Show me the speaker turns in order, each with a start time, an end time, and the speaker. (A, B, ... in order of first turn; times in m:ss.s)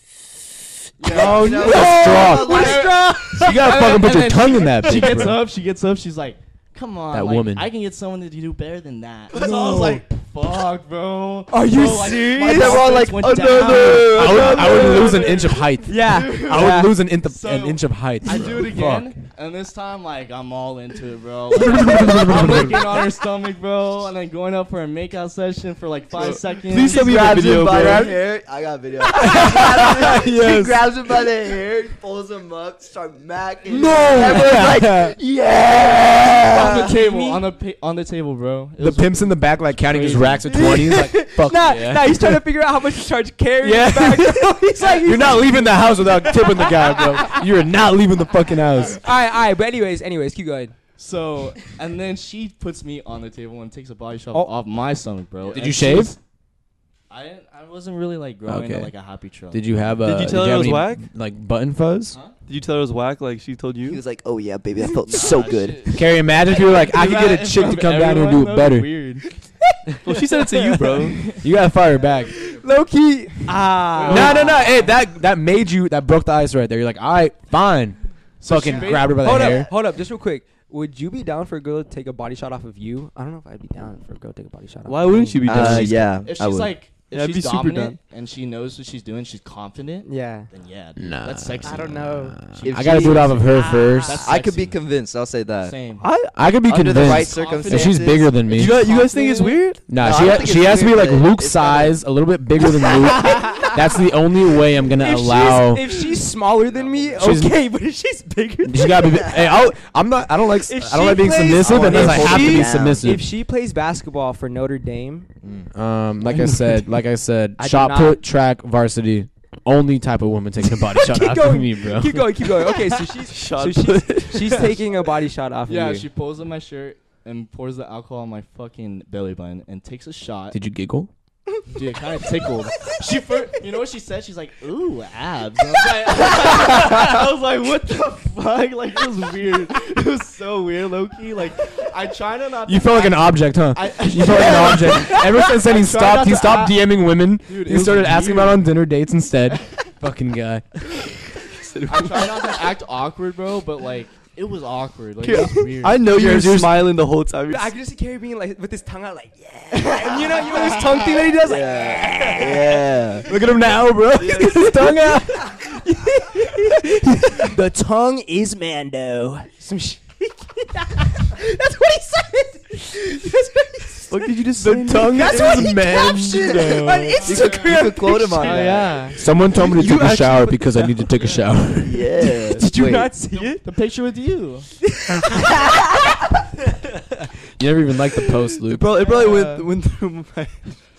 0:01.0-0:27.3 A
0:01.0-0:03.1 B
0:01.1-0:05.4 C
0:01.2-0:03.7 D
0:07.1-0:07.7 C
0:09.3-0:10.0 D
0:11.5-0:13.0 D
0:12.4-0:15.3 B
0:14.0-0:19.2 C
0:15.8-0:16.9 D
0:21.6-0:23.0 C
0:26.2-0:28.1 E
0:26.8-0:37.0 B
0:27.7-0:28.1 C
0:29.2-0:30.8 C
0:33.7-0:35.2 C
0:36.5-0:40.9 A
0:37.0-0:37.4 D
0:38.8-0:42.4 C
0:40.5-0:47.5 D
0:43.6-0:49.0 C
0:48.8-0:50.7 D
0:51.0-0:56.2 A
0:55.5-0:56.2 C
0:57.1-1:00.0 A
0:58.4-1:02.2 C
1:00.0-1:01.1 E
1:02.4-1:04.0 E
1:03.8-1:05.9 B
1:05.1-1:09.3 A
1:05.9-1:09.0 C
1:09.6-1:10.7 D
1:10.0-1:11.3 E
1:11.1-1:11.5 A
1:11.4-1:12.3 C
1:12.0-1:12.5 A
1:12.3-1:14.8 D
1:13.9-1:15.0 A
1:14.0-1:19.7 C
1:18.4-1:19.6 A
1:18.6-1:25.8 D
1:24.8-1:26.0 E
1:25.4-1:26.7 B
1:25.6-1:25.9 C
1:26.0-1:34.8 A
1:27.1-1:28.0 E
1:30.0-1:30.5 D
1:31.0-1:34.3 C
1:31.6-1:32.4 D
1:32.6-1:33.3 B
1:33.5-1:34.3 D
1:34.2-1:35.8 B
1:35.6-1:36.1 A
1:36.0-1:38.9 C
1:36.6-1:38.6 B
1:37.2-1:37.9 A
1:38.4-1:39.8 E
1:38.6-1:39.6 D
1:39.9-1:45.9 C
1:40.0-1:42.0 B
1:42.8-1:43.8 D
1:45.0-1:49.2 D
1:46.6-1:47.4 A
1:47.2-1:47.6 C
1:48.6-1:53.3 C
1:50.6-1:55.3 D
1:51.4-1:53.2 B
1:55.4-1:55.7 B
1:55.7-2:02.2 C
1:57.6-1:58.2 D
2:01.0-2:06.0 D
2:03.3-2:04.8 E
2:05.6-2:10.6 A
2:10.5-2:11.1 C
2:11.7-2:28.7 A
2:22.7-2:31.3 C
2:31.6-2:32.5 E
2:31.9-2:36.2 A
2:35.2-2:37.7 E
2:36.1-2:36.7 C
2:37.5-2:43.5 D
2:40.1-2:41.2 A
2:41.4-2:43.3 B
2:43.2-2:45.6 C
2:44.2-3:00.9 D
2:54.1-2:55.4 E
2:54.6-2:57.3 C
2:56.3-2:59.0 B
2:57.2-2:57.7 A
2:58.4-2:59.2 A
2:59.1-3:02.1 C
3:01.2-3:01.5 A
3:01.8-3:03.1 B
3:02.5-3:03.6 D
3:03.3-3:04.7 A
3:04.9-3:06.2 D
3:07.6-3:08.9 C
3:08.7-3:10.8 E
3:09.0-3:09.6 D